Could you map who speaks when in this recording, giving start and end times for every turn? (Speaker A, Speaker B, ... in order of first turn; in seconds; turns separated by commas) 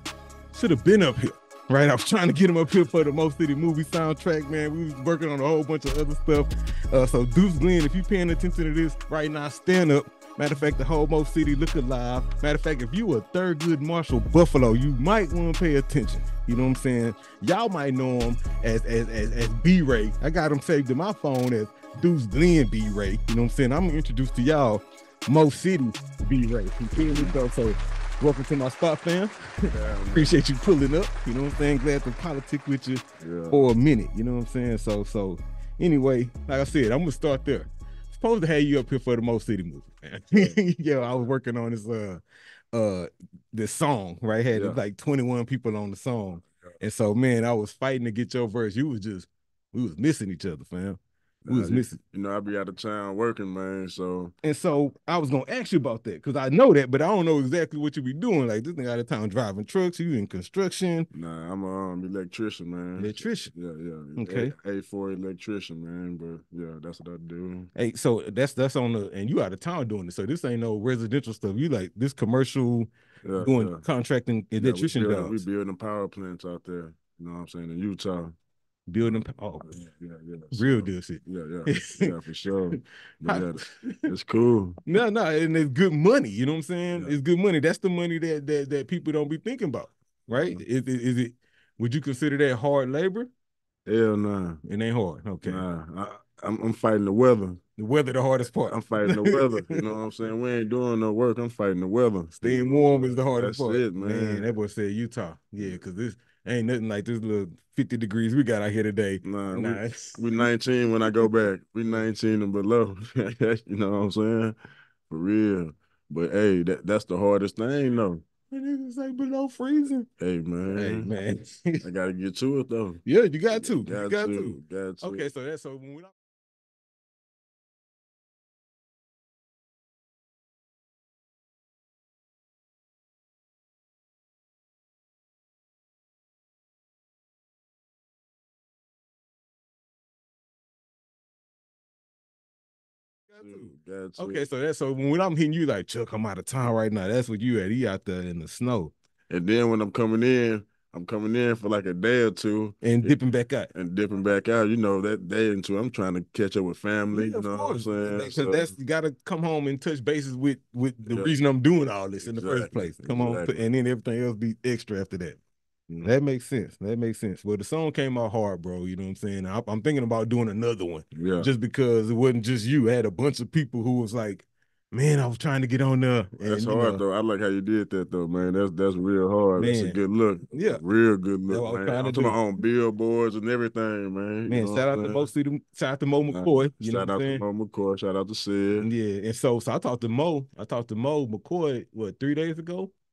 Speaker A: 0.5-42.2, Speaker B: 27.0-27.3, Speaker B: 29.7-30.4, Speaker B: 33.2-33.7, Speaker B: 40.3-40.6, Speaker A: 42.7-52.0, Speaker B: 44.5-44.8, Speaker B: 51.4-54.3, Speaker A: 54.4-61.1, Speaker B: 61.1-67.7, Speaker A: 63.0-63.5, Speaker A: 64.2-64.5, Speaker A: 67.7-72.9, Speaker B: 73.2-73.8, Speaker A: 73.4-75.4, Speaker B: 74.6-78.3, Speaker A: 78.9-79.7, Speaker B: 79.6-84.8, Speaker A: 80.5-82.1, Speaker A: 82.7-84.1, Speaker A: 84.9-93.3, Speaker B: 93.8-94.6, Speaker A: 94.6-95.7, Speaker B: 95.4-97.6, Speaker A: 97.8-99.8, Speaker B: 98.7-104.5, Speaker A: 102.4-110.4, Speaker B: 109.2-114.5, Speaker B: 115.1-118.2, Speaker A: 118.5-120.1, Speaker B: 120.2-121.1, Speaker A: 120.7-121.8, Speaker B: 121.8-123.0, Speaker A: 123.0-126.1, Speaker B: 123.5-125.2, Speaker A: 143.3-143.7, Speaker B: 143.4-144.4, Speaker A: 144.2-148.9, Speaker B: 149.3-153.1, Speaker A: 152.8-153.7, Speaker B: 153.7-158.7, Speaker A: 157.1-165.4, Speaker B: 162.2-163.6, Speaker A: 166.0-177.0, Speaker B: 171.1-171.5, Speaker B: 176.4-185.3, Speaker A: 179.6-180.0, Speaker A: 180.5-180.8, Speaker A: 181.5-182.3, Speaker A: 184.5-187.4, Speaker B: 186.3-188.9, Speaker A: 188.8-192.9